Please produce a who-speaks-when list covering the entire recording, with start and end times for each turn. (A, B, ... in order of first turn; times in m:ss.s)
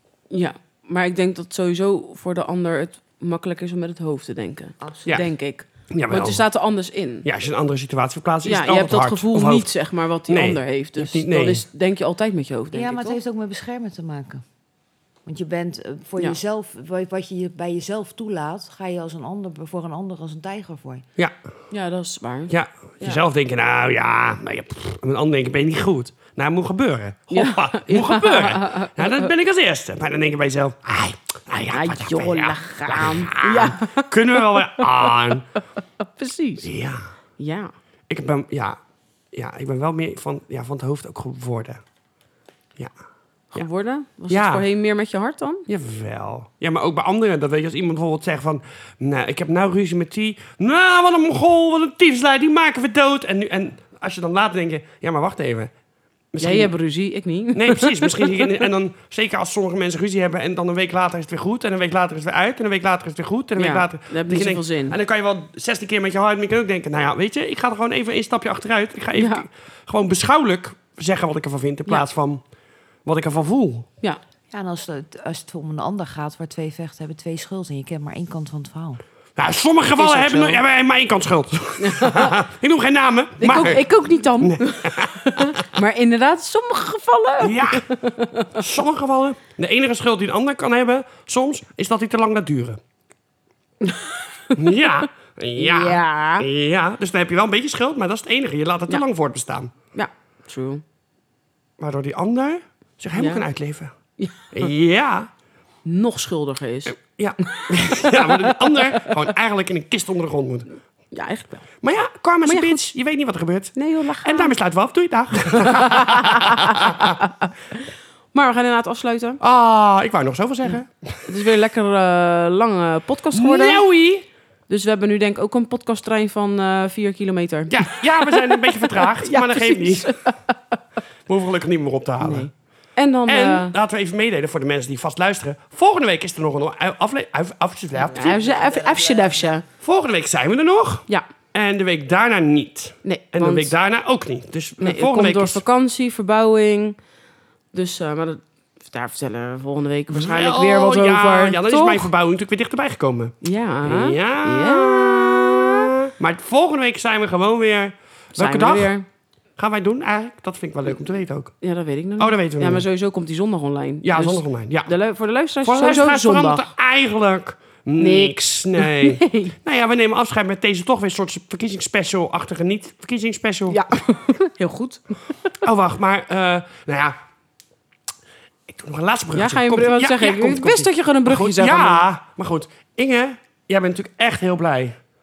0:00.3-0:07.3 A
0:04.8-0:05.2 B
0:05.9-0:06.4 C
0:07.2-0:09.7 C
0:08.4-0:13.2 A
0:10.3-0:11.6 C
0:12.7-0:14.4 B
0:15.2-0:21.0 B
0:21.7-0:23.2 A
0:22.5-0:35.5 C
0:27.3-0:29.3 A
0:31.7-0:36.7 A
0:36.6-0:37.1 C
0:37.4-0:37.7 A
0:38.1-0:38.8 C
0:39.3-0:41.8 C
0:43.5-0:45.6 A
0:44.3-0:44.6 C
0:45.7-0:55.7 C
0:56.3-0:56.7 C
0:56.4-0:58.6 A
0:57.5-1:12.4 C
1:03.6-1:05.0 A
1:09.2-1:09.5 A
1:13.0-1:13.9 C
1:14.5-1:19.0 B
1:19.4-1:23.9 C
1:20.0-1:20.6 B
1:21.8-1:22.3 A
1:23.4-1:28.6 A
1:24.4-1:25.6 C
1:27.4-1:27.9 C
1:28.5-1:32.8 C
1:33.8-1:34.9 A
1:34.6-1:39.7 C
1:35.6-1:36.5 A
1:39.9-1:40.8 A
1:41.8-1:43.9 C
1:43.1-1:43.4 A
1:44.2-1:44.5 A
1:44.5-1:45.3 C
1:45.8-1:49.2 A
1:46.9-1:50.7 C
1:51.1-1:51.6 A
1:51.8-1:57.2 C
1:52.4-1:52.8 A
1:53.8-1:54.5 A
1:55.7-1:57.8 A
1:58.3-1:59.4 A
1:59.4-2:01.3 C
2:01.2-2:03.8 A
2:03.3-2:04.2 C
2:04.7-2:10.8 A
2:07.7-2:10.2 C
2:11.2-2:12.5 C
2:12.2-2:13.7 A
2:13.2-2:18.7 C
2:18.1-2:19.4 B
2:18.1-2:19.6 A
2:19.8-2:25.6 C
2:23.0-2:23.7 A
2:24.8-2:27.0 A
2:27.7-2:32.1 A
2:30.1-2:38.9 C
2:33.4-2:35.8 A
2:38.3-2:39.0 A
2:39.6-2:41.5 C
2:41.6-2:46.7 A
2:42.2-2:42.8 C
2:44.0-2:44.9 C
2:45.6-2:53.9 C
2:48.0-2:49.5 A
2:53.7-2:55.2 A
2:55.6-2:57.2 C
2:58.7-3:04.9 C
2:59.3-3:02.0 A